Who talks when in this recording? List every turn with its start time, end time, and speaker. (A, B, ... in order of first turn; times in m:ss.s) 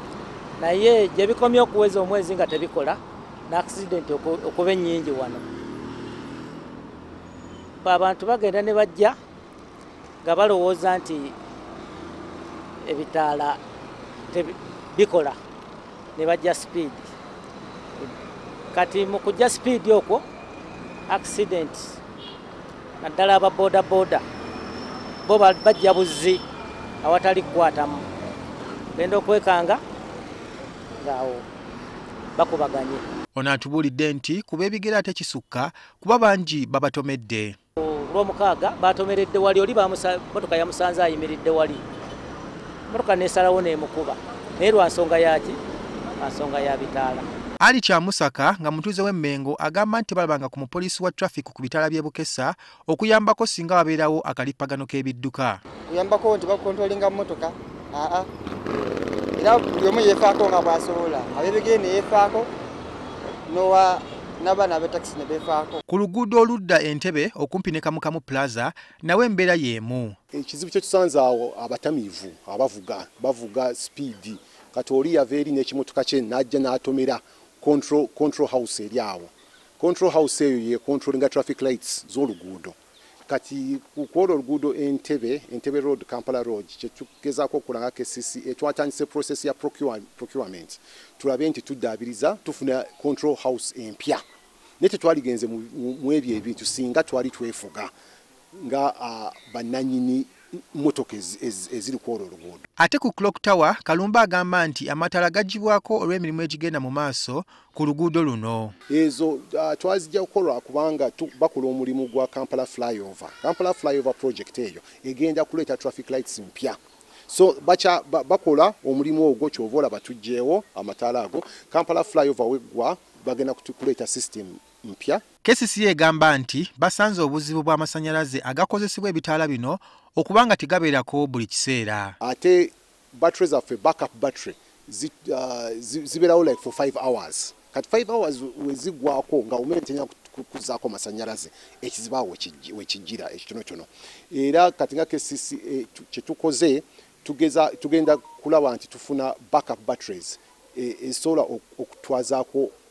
0:00.6-0:05.4 A
0:07.8-0:09.2 A
0:10.2-0:11.3 A
0:12.8-0:13.6 A
0:14.3-0:15.4 A
0:16.2-0:17.1 A
0:18.7-0:20.2 A
0:21.1-0:22.0 A
0:23.0-0:24.2 A
0:25.2-0:26.4 A
0:27.0-0:28.0 A
0:28.9-0:29.8 A
0:31.0-0:31.4 A
0:32.3-0:33.0 A
0:33.3-0:37.6 B
0:37.8-0:41.8 A
0:42.9-0:45.6 A
0:46.2-0:47.2 A
0:47.6-0:55.6 B
0:55.9-0:58.3 C
0:59.4-1:02.5 C
1:03.5-1:05.8 C
1:05.9-1:10.2 B
1:10.3-1:22.8 D
1:23.3-1:34.2 D
1:34.8-1:37.9 D
1:38.6-1:42.6 D
1:42.8-1:48.7 B
1:48.9-2:05.2 D
2:05.4-2:12.2 B
2:12.2-2:32.7 D